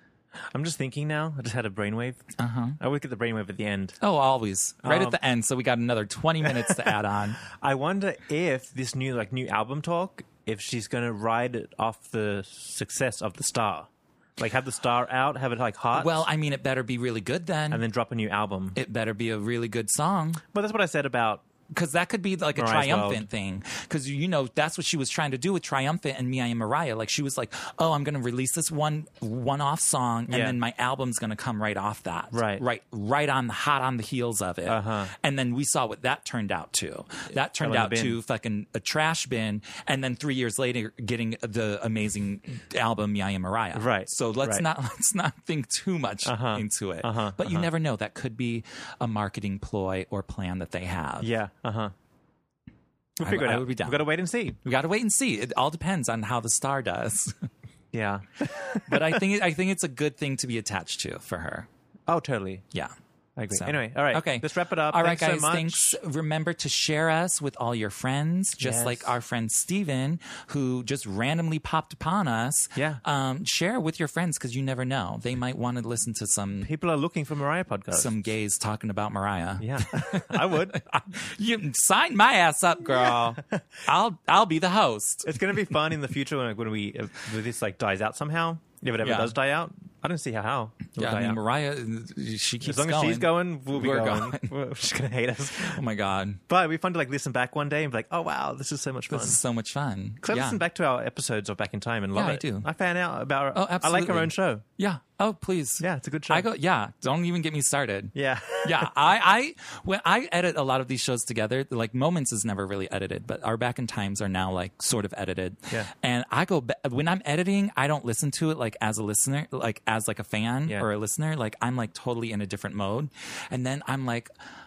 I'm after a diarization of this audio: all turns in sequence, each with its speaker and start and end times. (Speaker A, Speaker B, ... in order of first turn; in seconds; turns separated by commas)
Speaker A: 0.5-2.3, Speaker B: 2.4-2.8, Speaker A: 2.8-4.0, Speaker B: 4.0-7.4, Speaker A: 4.8-5.2, Speaker A: 6.4-16.2, Speaker B: 15.9-17.9, Speaker A: 17.7-18.8, Speaker B: 18.7-20.4, Speaker A: 20.5-21.4, Speaker B: 21.7-51.3, Speaker A: 22.5-23.3, Speaker A: 30.3-30.6, Speaker A: 32.3-32.6, Speaker A: 34.7-35.1, Speaker A: 37.6-38.2, Speaker A: 43.7-44.6, Speaker A: 46.2-47.7, Speaker A: 51.2-51.9, Speaker A: 53.2-54.6, Speaker B: 53.2-54.1, Speaker B: 54.6-57.3, Speaker A: 57.9-59.2, Speaker B: 58.9-61.7, Speaker A: 62.1-62.6, Speaker A: 63.4-66.0, Speaker B: 63.5-76.7, Speaker A: 68.6-69.2, Speaker A: 72.8-73.0, Speaker A: 76.6-78.1, Speaker B: 77.9-85.6, Speaker A: 79.6-80.8, Speaker A: 82.9-83.6, Speaker A: 85.2-91.4, Speaker B: 89.0-89.3, Speaker B: 90.9-94.5, Speaker A: 92.6-95.8, Speaker B: 95.6-96.4, Speaker A: 96.5-99.4, Speaker B: 99.1-100.6, Speaker A: 100.2-104.6, Speaker B: 102.1-102.7, Speaker B: 103.5-124.3, Speaker A: 105.8-106.5, Speaker A: 108.1-108.9